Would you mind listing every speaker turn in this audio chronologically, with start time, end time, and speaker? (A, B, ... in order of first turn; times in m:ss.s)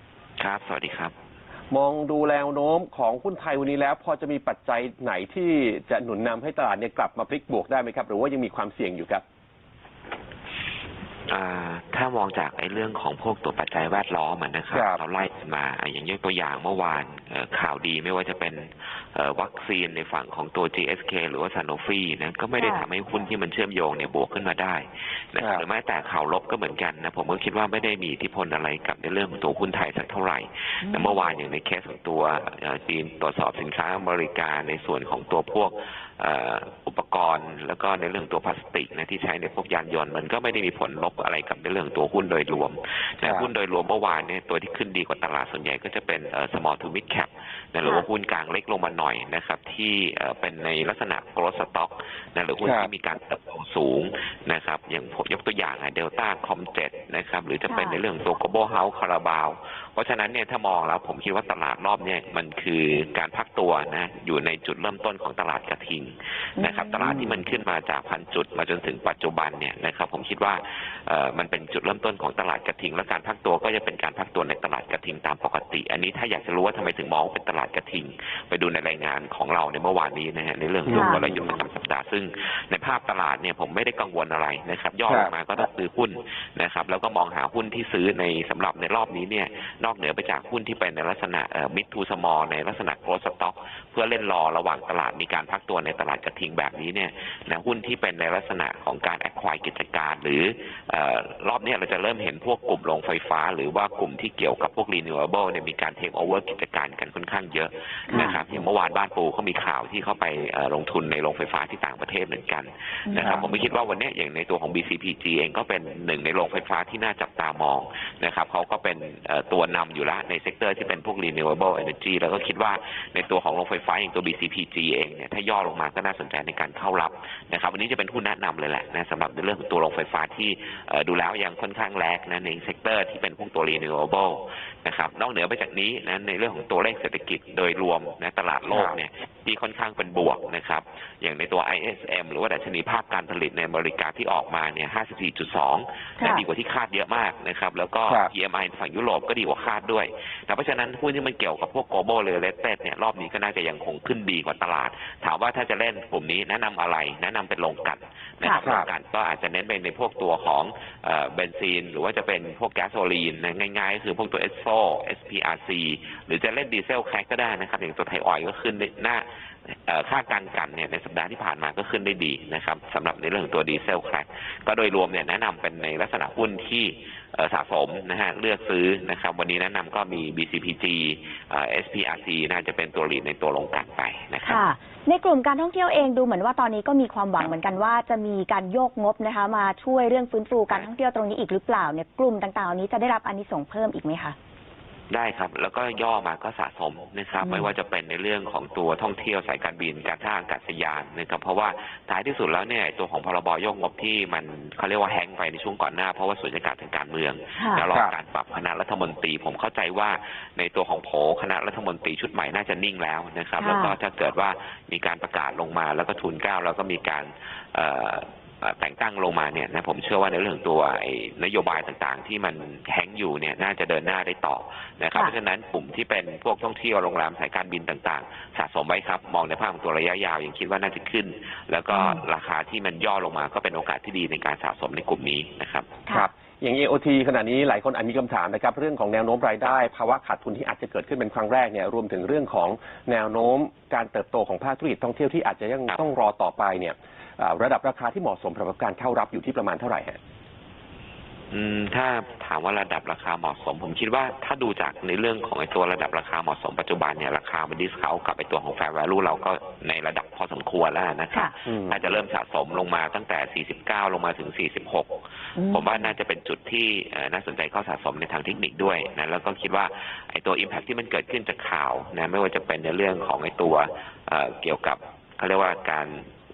0:00.4-0:01.1 A
0:01.7-0:09.2 B
0:11.3-2:49.3 A
0:14.7-0:15.0 B
0:22.6-0:22.8 C
0:25.4-0:25.6 B
0:30.8-0:31.1 C
0:43.2-0:43.5 B
0:52.6-0:52.9 B
1:06.6-1:07.1 C
1:07.0-1:07.4 B
1:20.9-1:21.6 B
1:20.9-1:21.2 C
1:25.1-1:25.3 B
1:48.2-1:48.6 B
1:53.1-1:53.5 C
1:53.2-1:53.5 B
2:18.7-2:19.0 B
2:38.6-2:38.9 B
2:49.9-3:04.6 A
3:04.4-3:14.3 C
3:15.1-3:55.9 A
3:33.6-3:33.9 C
3:51.9-3:52.2 C
3:56.1-4:10.2 B
4:11.5-4:36.3 A
4:21.7-4:22.0 B
4:25.6-4:25.8 C